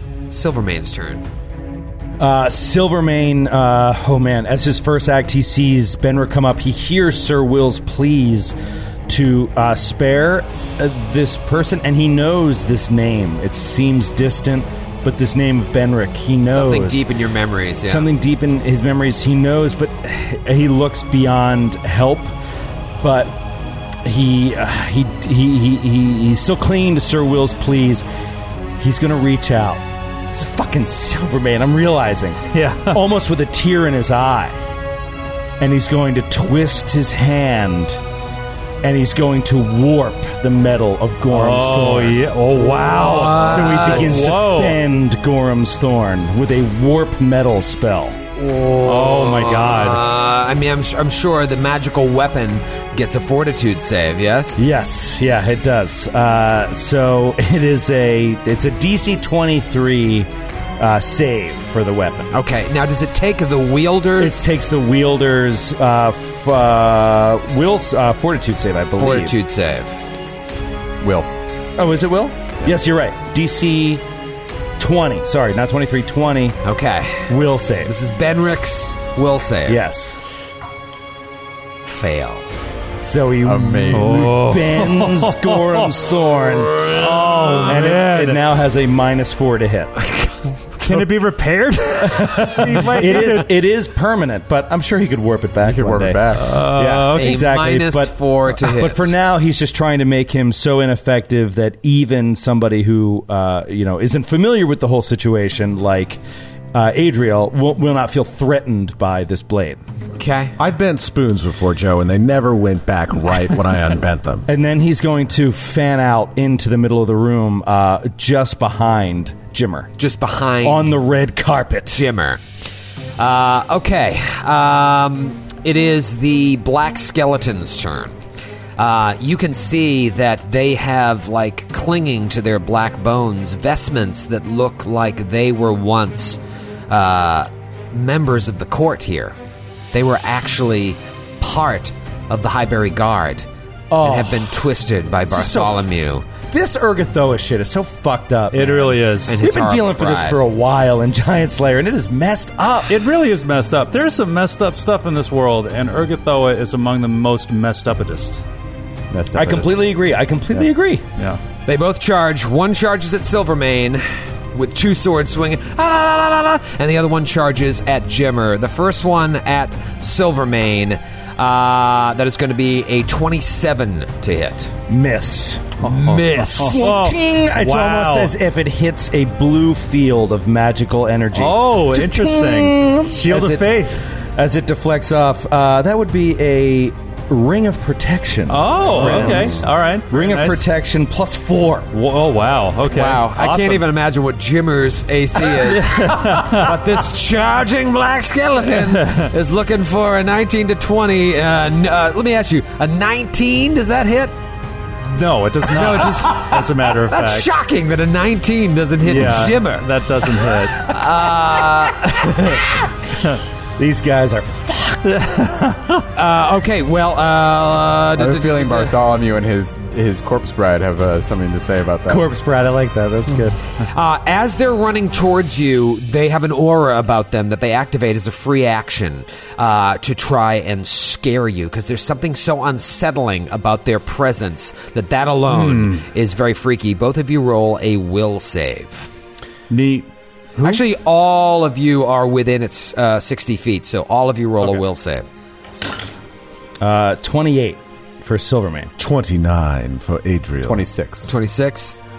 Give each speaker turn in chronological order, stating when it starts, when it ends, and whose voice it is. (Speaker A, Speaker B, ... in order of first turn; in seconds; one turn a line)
Speaker A: 0.3-1.2
Speaker B: 2.2-8.6
Speaker B: 9.1-17.0
Speaker A: 16.4-18.1
Speaker B: 17.9-22.3
Speaker B: 23.0-23.4
Speaker B: 24.0-28.1
Speaker B: 28.8-34.6
Speaker C: 32.5-33.0
Speaker B: 35.6-38.0
Speaker B: 38.8-42.2
Speaker C: 41.3-44.8
Speaker A: 42.7-44.3
Speaker B: 43.4-48.2
Speaker A: 48.4-54.6
Speaker C: 48.8-50.0
Speaker B: 54.6-62.3
Speaker A: 62.3-64.4
Speaker B: 64.2-69.4
Speaker A: 69.0-70.0
Speaker D: 71.0-71.3
Speaker B: 71.8-74.0
Speaker B: 74.8-76.6
Speaker A: 76.6-77.3
Speaker B: 77.3-77.9
Speaker A: 77.9-79.8
Speaker B: 79.7-80.2
Speaker A: 81.9-82.5
Speaker B: 83.0-87.0
Speaker D: 83.4-84.4
Speaker C: 83.9-86.0
Speaker C: 86.8-88.4
Speaker B: 87.6-90.0
Speaker A: 90.0-91.0
Speaker C: 90.8-93.5
Speaker B: 92.1-106.2
Speaker D: 95.6-96.6
Speaker C: 96.4-97.5
Speaker A: 97.1-99.1
Speaker B: 106.7-109.8
Speaker A: 110.2-110.6
Speaker E: 110.6-114.5
Speaker B: 114.5-119.9
Speaker A: 120.0-120.9
Speaker B: 120.6-122.0
Speaker A: 121.9-122.4
Speaker A: 123.2-128.2
Speaker A: 128.8-139.4
Speaker A: 139.9-143.5
Speaker B: 143.9-144.5
Speaker A: 144.0-146.3
Speaker B: 145.3-145.9
Speaker B: 146.5-153.0
Speaker C: 148.5-149.4
Speaker A: 149.3-150.4
Speaker C: 152.9-158.4
Speaker D: 159.1-159.9
Speaker B: 159.3-161.1
Speaker A: 161.7-174.7
Speaker B: 174.9-183.6
Speaker A: 175.8-176.9
Speaker C: 175.8-178.4
Speaker C: 181.3-184.0
Speaker A: 183.3-183.6
Speaker B: 184.4-191.9
Speaker C: 188.5-190.7
Speaker C: 191.9-193.9
Speaker A: 192.8-204.3
Speaker C: 195.5-196.8
Speaker C: 198.7-199.3
Speaker C: 205.1-207.5
Speaker A: 205.7-212.7
Speaker C: 209.0-210.9
Speaker B: 212.3-212.6
Speaker B: 213.8-215.3
Speaker C: 215.1-216.1
Speaker A: 216.2-219.0
Speaker D: 218.2-222.3
Speaker B: 222.1-223.6
Speaker A: 223.8-239.1
Speaker C: 235.5-236.1
Speaker C: 239.7-240.8
Speaker A: 240.6-245.3
Speaker B: 246.8-248.9
Speaker E: 249.0-250.9
Speaker D: 250.7-251.3
Speaker A: 251.3-252.0